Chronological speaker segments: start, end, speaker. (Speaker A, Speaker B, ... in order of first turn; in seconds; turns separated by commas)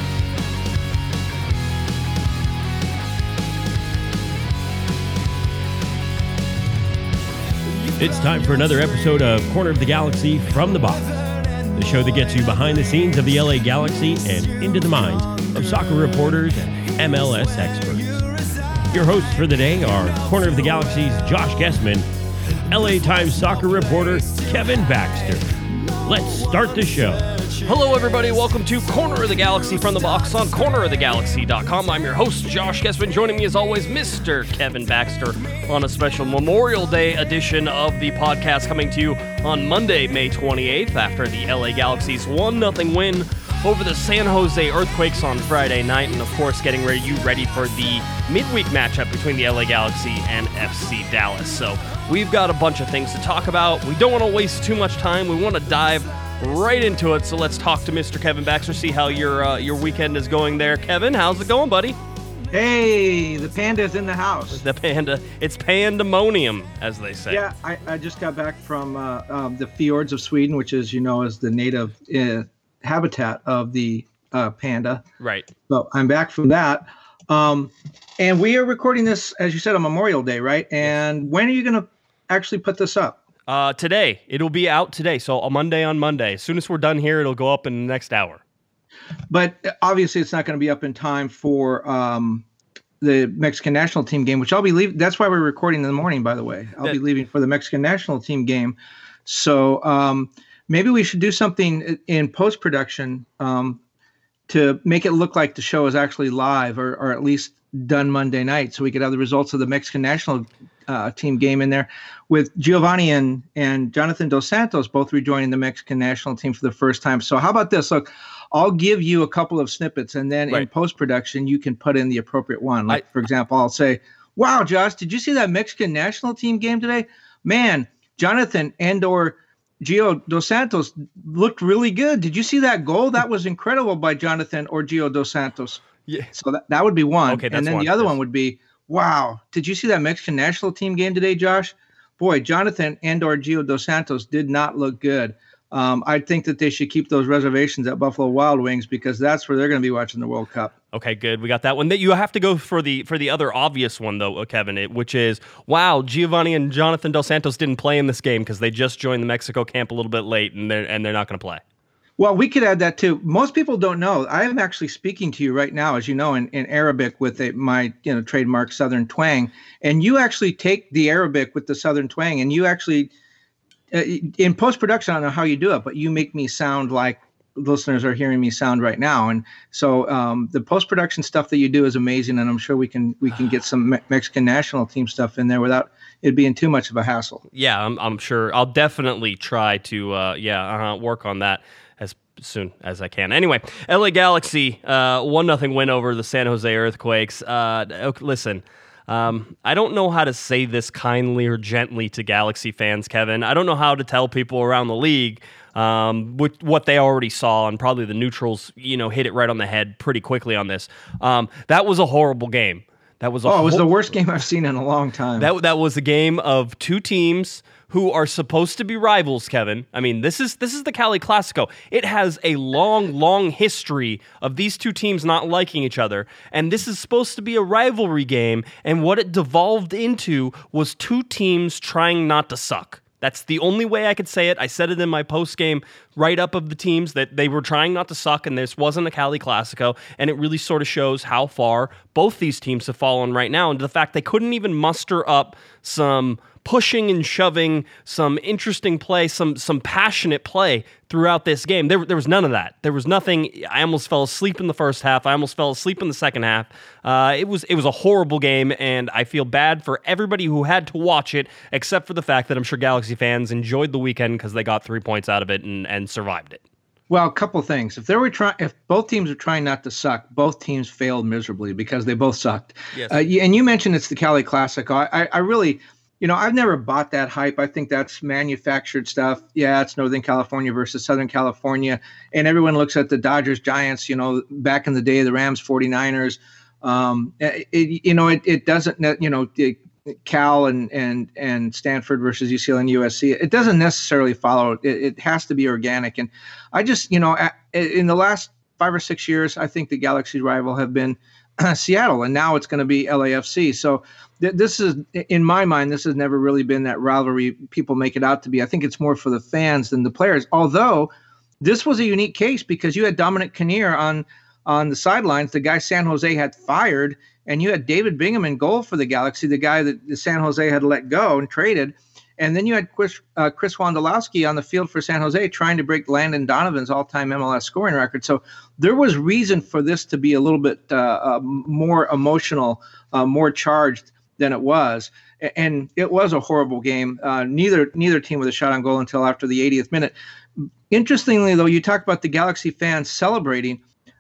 Speaker A: 8.0-11.2, Speaker A: 11.7-18.1, Speaker A: 18.9-22.1, Speaker A: 22.7-25.5, Speaker A: 26.0-27.3, Speaker B: 27.6-62.0, Speaker C: 62.5-64.6, Speaker B: 64.5-67.4, Speaker C: 67.3-75.0, Speaker B: 75.2-75.5, Speaker C: 75.7-83.2, Speaker B: 83.5-88.4, Speaker C: 89.3-92.5, Speaker C: 93.0-103.8, Speaker C: 104.5-150.7, Speaker B: 137.3-138.2, Speaker B: 150.9-161.6, Speaker C: 162.2-173.1, Speaker C: 173.9-187.4, Speaker B: 187.5-213.9, Speaker C: 213.4-215.5, Speaker B: 215.4-266.6, Speaker C: 267.1-340.1, Speaker B: 272.9-273.2, Speaker C: 340.9-343.8